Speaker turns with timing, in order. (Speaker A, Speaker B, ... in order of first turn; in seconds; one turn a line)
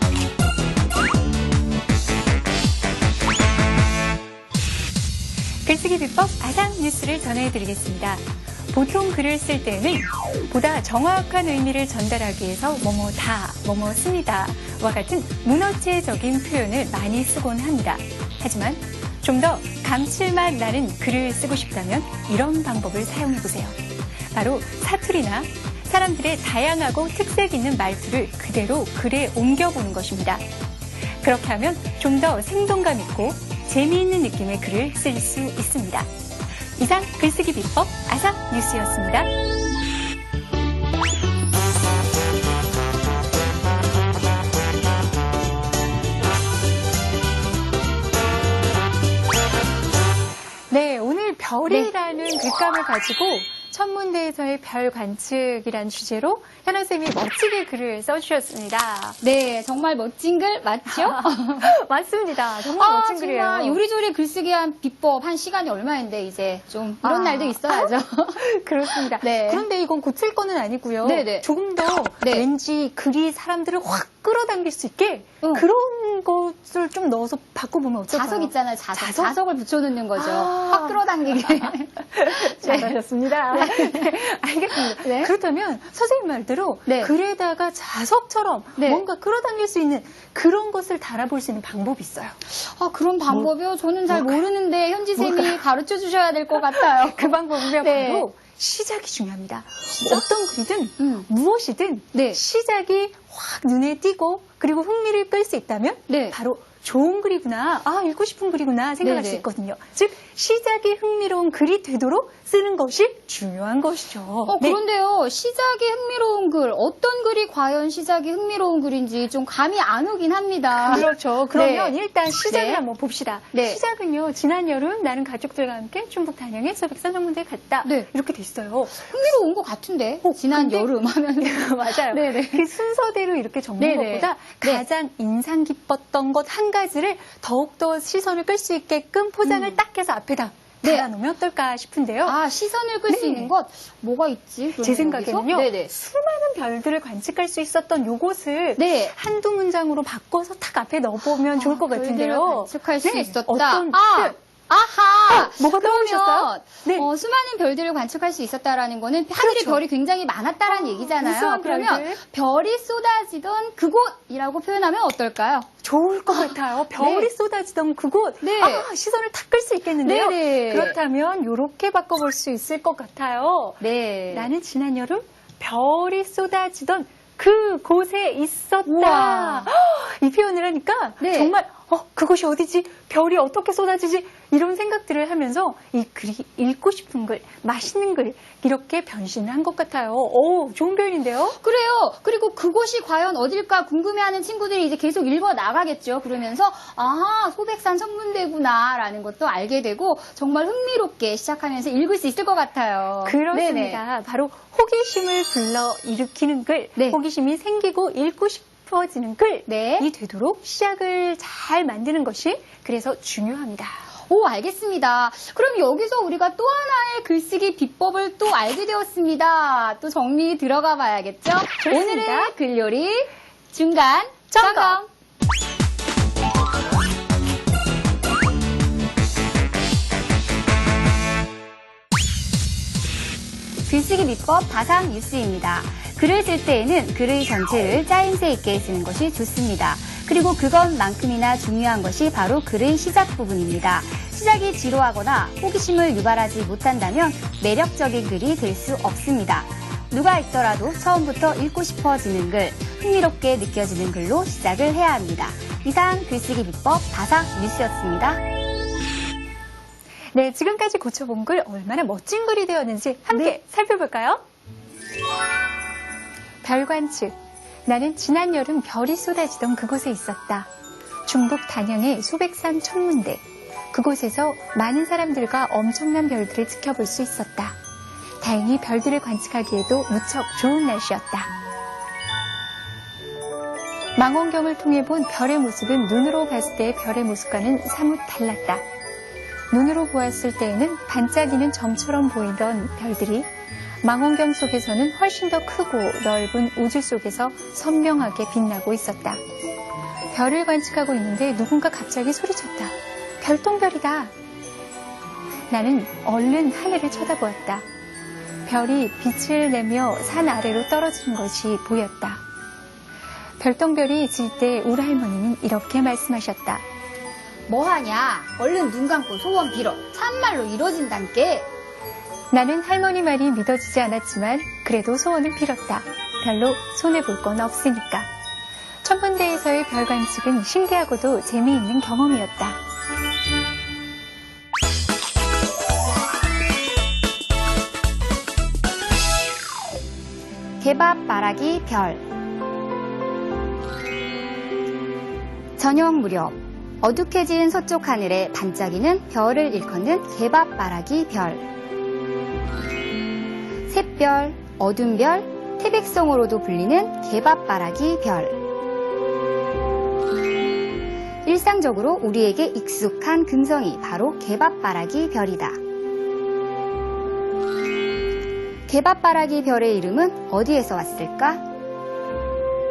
Speaker A: 5.6-23.8
Speaker A: 24.3-30.4
Speaker A: 31.2-36.1
Speaker A: 36.8-39.3
Speaker A: 50.7-59.2
Speaker B: 59.2-61.7
Speaker A: 60.9-63.8
Speaker B: 62.7-69.7
Speaker A: 67.0-79.3
Speaker B: 71.0-71.5
Speaker B: 72.2-72.5
Speaker B: 75.4-75.7
Speaker B: 78.1-82.9
Speaker A: 80.2-92.4
Speaker B: 83.5-84.2
Speaker B: 84.8-85.3
Speaker B: 86.9-87.1
Speaker B: 88.8-89.0
Speaker B: 92.5-98.3
Speaker A: 94.1-94.4
Speaker A: 95.2-95.6
Speaker A: 96.5-114.8
Speaker B: 101.0-101.3
Speaker B: 102.1-102.4
Speaker B: 106.1-106.4
Speaker B: 109.0-109.5
Speaker B: 114.5-122.8
Speaker A: 120.7-129.4
Speaker B: 123.5-123.8
Speaker B: 129.1-132.7
Speaker A: 130.2-142.4
Speaker B: 133.8-134.8
Speaker B: 139.4-139.8
Speaker B: 140.8-141.1
Speaker B: 142.2-145.9
Speaker A: 143.1-143.5
Speaker A: 144.8-154.3
Speaker B: 148.8-149.1
Speaker B: 151.4-165.7
Speaker A: 155.3-157.1
Speaker A: 159.3-159.8
Speaker A: 160.7-162.2
Speaker A: 165.8-191.6
Speaker B: 166.9-167.3
Speaker B: 168.4-168.9
Speaker B: 170.0-171.0
Speaker B: 173.8-174.5
Speaker B: 178.8-179.7
Speaker B: 181.2-181.5
Speaker B: 191.6-204.0
Speaker A: 203.2-214.0
Speaker B: 209.7-210.1
Speaker B: 214.3-225.1
Speaker A: 221.8-222.5
Speaker A: 224.5-225.0
Speaker B: 233.8-258.4
Speaker A: 260.3-264.4
Speaker A: 266.6-267.3
Speaker A: 267.9-270.7
Speaker A: 271.2-277.7
Speaker A: 278.4-281.5
Speaker A: 284.1-288.8
Speaker A: 289.7-293.5
Speaker A: 294.0-299.4
Speaker A: 300.3-304.3
Speaker A: 305.7-307.8
Speaker A: 308.6-312.4
Speaker A: 313.6-316.8
Speaker B: 317.7-321.7
Speaker A: 322.5-328.3
Speaker A: 329.0-332.8
Speaker B: 340.8-342.2
Speaker B: 345.8-351.7
Speaker B: 353.9-358.6
Speaker B: 361.4-365.8
Speaker B: 368.9-371.6